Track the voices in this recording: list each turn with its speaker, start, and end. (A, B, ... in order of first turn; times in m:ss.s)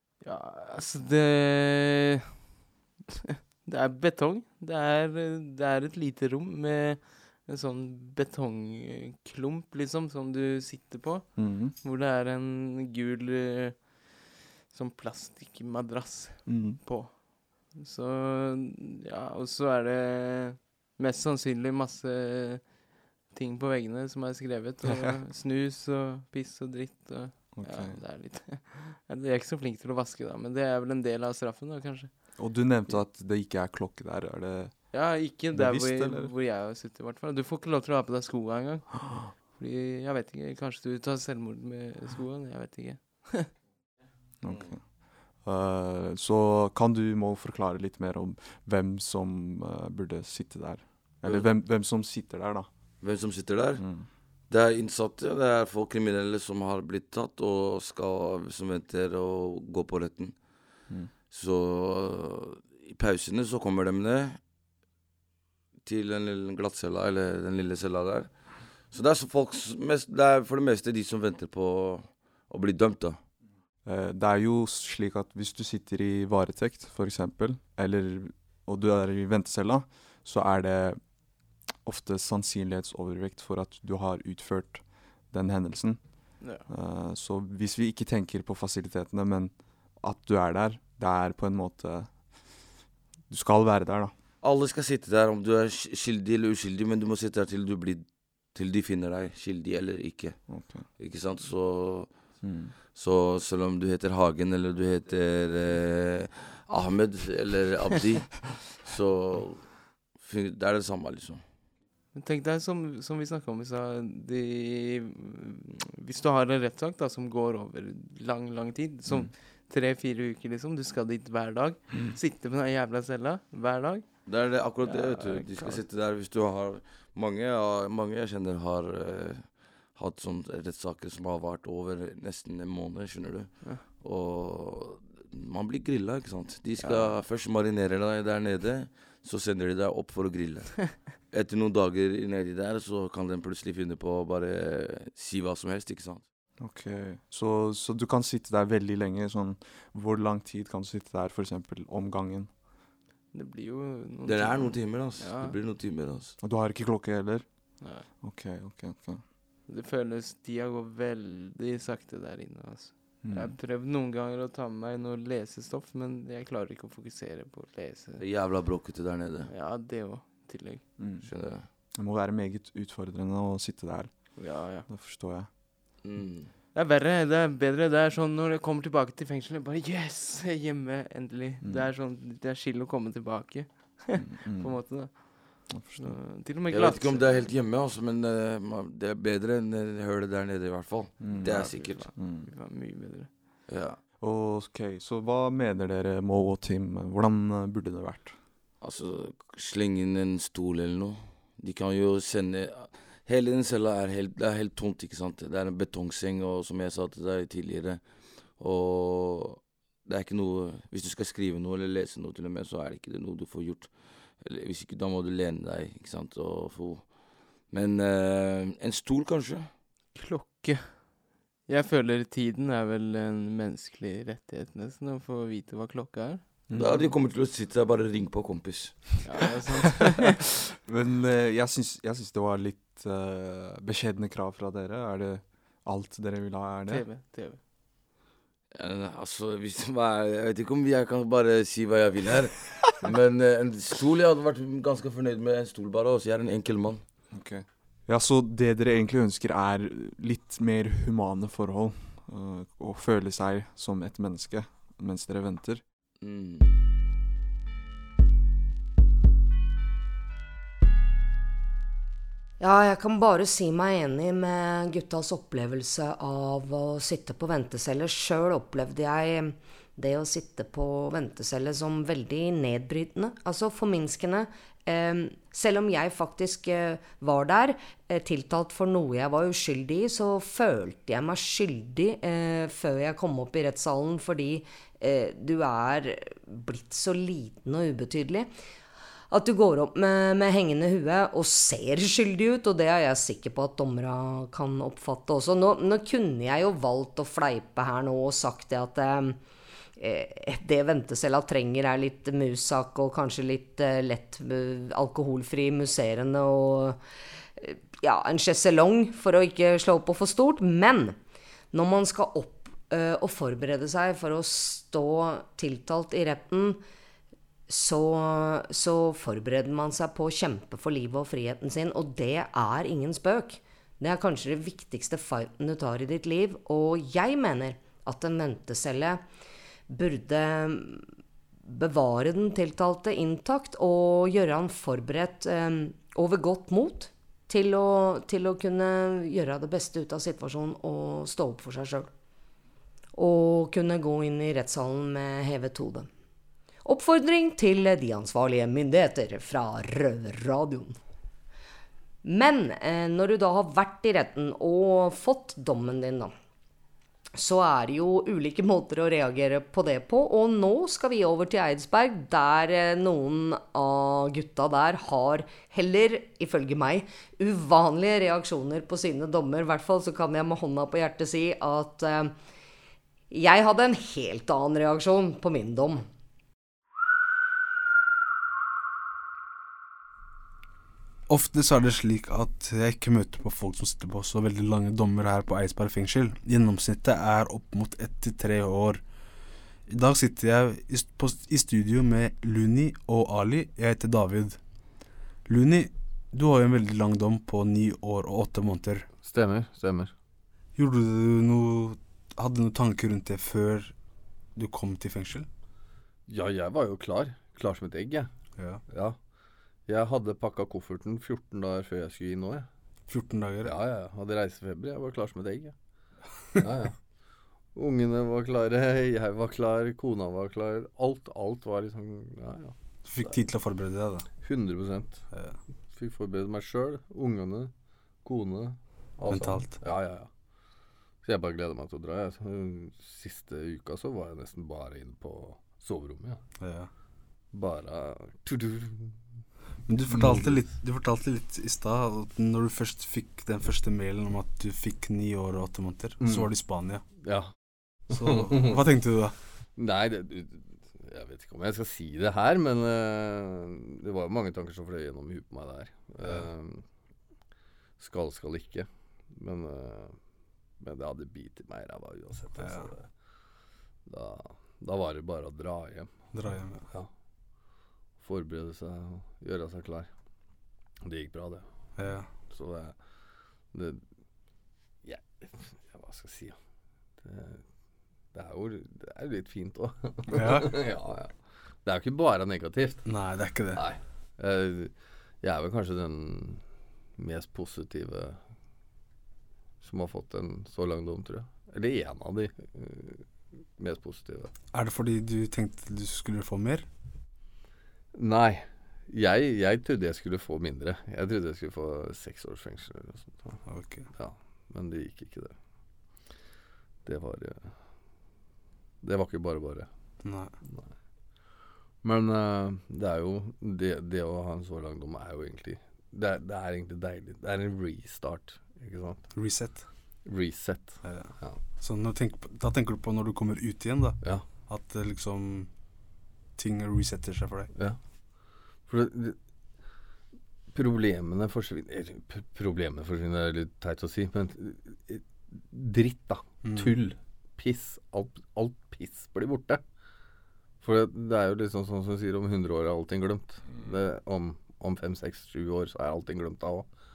0:00.2-0:02.3 A
0:03.6-0:33.0 A
0:11.4-0:11.7 B
0:16.5-0:16.8 B
0:24.8-0:25.2 B
0:27.5-0:28.0 B
0:32.4-0:36.3 B
0:34.9-0:43.5 A
0:44.4-0:52.7 B
0:44.5-0:44.8 C
0:51.2-0:51.5 C
0:53.0-1:00.5 C
0:53.8-0:54.1 B
1:00.9-1:01.1 B
1:01.3-1:04.4 C
1:05.8-1:13.3 C
1:13.8-1:34.2 B
1:26.4-1:26.7 A
1:34.4-1:51.4 C
1:40.5-1:40.9 B
1:42.4-1:42.8 B
1:52.1-2:05.8 A
2:04.2-2:26.2 C
2:16.8-2:17.2 A
2:26.6-2:32.5 B
2:33.3-2:35.6 A
2:34.2-2:36.4 C
2:36.4-2:39.2 B
2:37.8-2:38.1 A
2:39.7-2:48.2 A
2:43.2-2:43.6 B
2:48.2-2:49.5 C
2:49.5-2:50.9 A
2:51.0-2:55.5 B
2:51.2-2:51.7 C
2:54.4-2:54.9 A
2:56.0-2:56.5 C
2:56.7-3:07.5 A
3:01.6-3:01.9 B
3:04.2-3:06.2 B
3:06.7-3:12.2 C
3:11.2-3:12.5 B
3:11.4-3:13.4 A
3:13.7-3:14.0 C
3:14.2-3:18.4 B
3:18.8-3:39.7 C
3:40.1-3:47.1 A
3:46.7-3:47.0 B
3:46.7-3:49.3 C
3:49.2-3:50.4 A
3:50.9-3:57.1 B
3:56.9-3:57.6 A
3:58.7-4:07.0 C
4:07.3-4:15.8 B
4:16.2-4:16.7 C
4:22.6-4:48.5 D
4:49.3-4:59.4 D
5:00.0-5:07.0 D
5:07.6-5:11.2 D
5:11.7-5:16.8 D
5:17.7-5:29.2 D
5:29.9-5:31.0 D
5:31.7-5:42.1 D
5:43.2-5:46.1 D
5:46.8-5:51.0 D
5:52.2-5:56.3 D
5:57.4-6:12.3 D
6:13.3-6:16.1 D
6:21.3-6:29.0 E
6:29.9-6:34.6 E
6:35.5-6:39.1 E
6:39.2-6:40.1 F
6:40.8-6:43.9 E
6:44.6-6:45.5 E
6:46.3-6:48.3 F
6:48.6-6:48.8 E
6:48.9-6:49.2 F
6:49.9-6:52.7 F
6:53.1-6:53.7 E
6:53.6-6:55.8 F
6:56.6-6:57.0 F
6:57.8-7:02.8 F
7:03.0-7:04.3 E
7:04.4-7:05.3 F
7:05.3-7:05.6 E
7:05.9-7:07.7 F
7:08.2-7:10.3 F
7:09.3-7:09.8 E
7:11.2-7:16.4 F
7:16.6-7:16.9 E
7:17.5-7:19.2 F
7:19.9-7:27.0 E
7:20.1-7:20.7 F
7:26.2-7:26.5 F
7:27.2-7:27.5 F
7:28.1-7:28.6 F
7:28.1-7:29.4 E
7:29.8-7:36.8 F
7:38.0-7:40.2 F
7:40.8-7:43.1 F
7:42.6-7:42.9 E
7:44.1-7:46.1 F
7:46.3-7:46.9 E
7:48.2-7:50.1 F
7:51.0-7:51.6 F
7:52.0-7:52.3 E
7:52.5-7:53.0 F
7:53.7-7:54.0 F
7:55.0-7:56.6 F
7:57.2-7:57.6 F
7:58.3-8:03.0 F
8:00.3-8:00.8 E
8:03.0-8:03.8 E
8:03.8-8:06.6 F
8:07.2-8:08.4 F
8:09.8-8:14.5 F
8:14.7-8:16.9 E
8:18.2-8:23.6 F
8:23.7-8:24.1 E
8:24.2-8:25.6 F
8:27.0-8:27.7 F
8:29.0-8:29.9 F
8:30.2-8:30.5 E
8:32.0-8:39.3 F
8:39.3-8:39.9 E
8:40.2-8:41.6 F
8:41.0-8:45.7 E
8:44.2-8:44.5 F
8:46.6-8:47.7 E
8:48.9-8:49.4 F
8:50.7-8:59.8 F
8:56.6-8:57.0 E
9:00.8-9:06.9 F